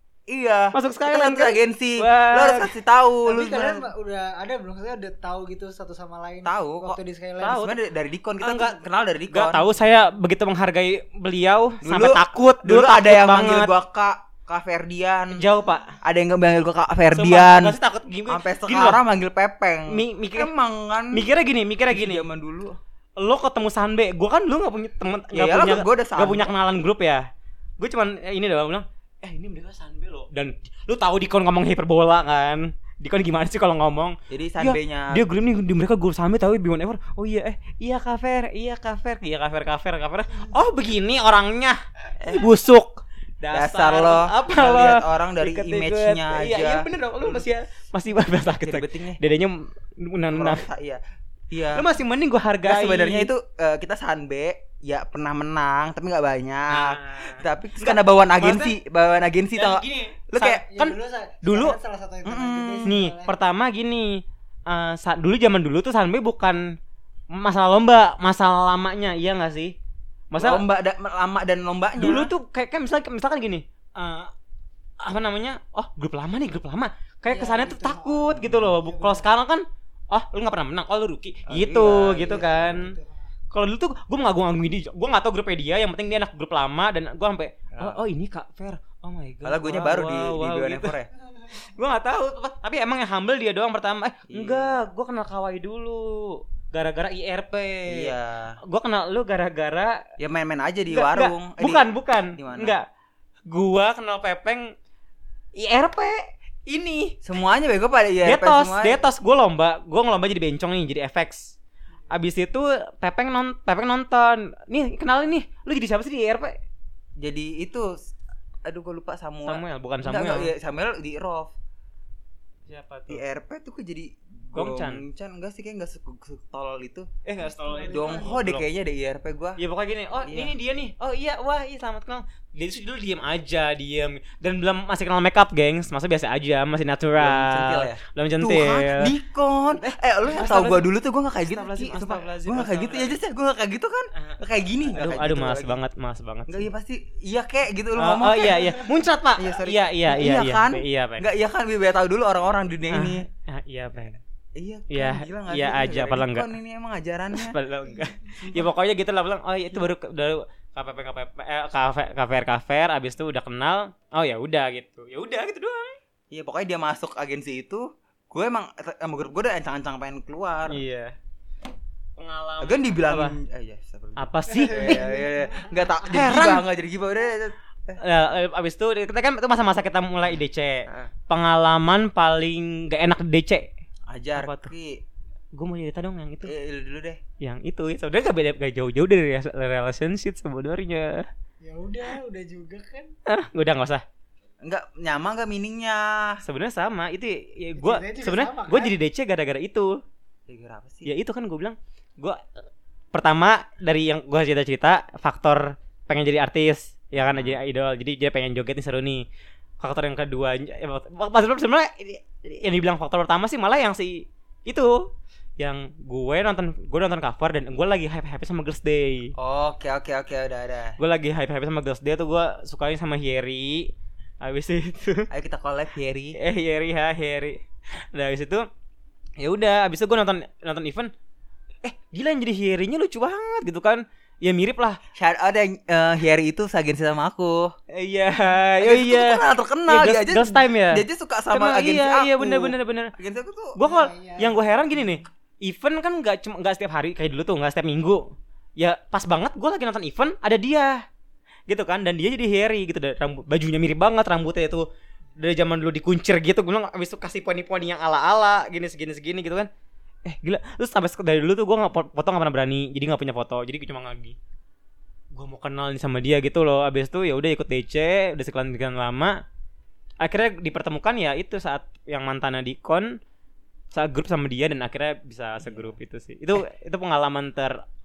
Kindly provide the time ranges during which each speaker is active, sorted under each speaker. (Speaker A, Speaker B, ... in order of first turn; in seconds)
Speaker A: 0.3-3.9, 6.4-9.7, 11.8-15.4, 16.0-17.8, 18.3-21.2, 21.9-22.8, 25.3-26.5, 34.3-35.2, 42.2-42.5, 43.5-47.4, 48.6-49.2, 50.3-51.9, 52.6-60.6, 62.2-62.9, 70.4-72.3, 78.4-78.7, 81.5-82.7, 87.7-88.0, 89.4-91.1, 94.3-94.8, 97.9-98.6, 100.2-102.8, 107.2-109.0, 117.2-118.1, 118.6-121.5, 123.1-127.1, 127.9-129.6, 130.2-130.5, 137.2-145.8, 146.5-148.8, 149.4-153.2, 154.6-157.6, 166.3-170.8, 172.6-178.0, 184.1-185.0, 186.4-187.2, 194.6-196.4, 200.5-201.1, 207.2-207.6, 219.4-221.0, 225.3-226.3, 235.2-237.7, 238.8-243.8, 275.6-276.0
Speaker B: 0.7-2.7, 7.4-7.8, 8.4-8.8, 9.3-13.7, 15.3-15.9, 17.1-19.0, 19.9-20.5, 21.1-22.2, 23.2-27.2, 27.8-50.6, 51.7-53.3, 56.7-58.7, 59.5-61.8, 62.8-66.8, 67.3-69.7, 70.3-70.6, 72.0-74.3, 75.0-82.9, 83.5-90.9, 91.5-98.1, 98.7-100.0, 100.9-102.8, 103.5-104.7, 105.5-107.2, 108.2-111.5, 112.1-116.5, 119.5-120.5, 122.7-123.2, 124.5-125.0, 127.2-128.6, 129.6-139.1, 139.7-140.9, 141.4-143.2, 144.1-146.7, 148.0-151.3, 152.9-154.2, 154.9-156.5, 157.3-165.9, 170.7-171.1, 172.2-173.4, 174.2-175.0, 176.1-176.6, 178.0-183.7, 184.3-184.7, 185.5-186.5, 187.4-191.3, 193.3-194.0, 196.4-200.0, 201.1-202.4, 203.1-209.2, 209.8-215.0, 215.6-219.3, 221.0-225.3, 226.4-228.7, 229.4-231.1, 231.8-235.0, 237.9-243.1, 243.7-251.0, 251.7-254.8, 255.4-259.7, 260.2-264.4, 265.3-269.3, 270.2-273.1, 273.9-277.8
Speaker C: 3.2-7.6, 60.6-63.3, 77.3-79.3, 82.3-83.3, 127.5-128.4, 174.6-175.8, 191.6-193.1, 197.8-198.9, 243.8-244.6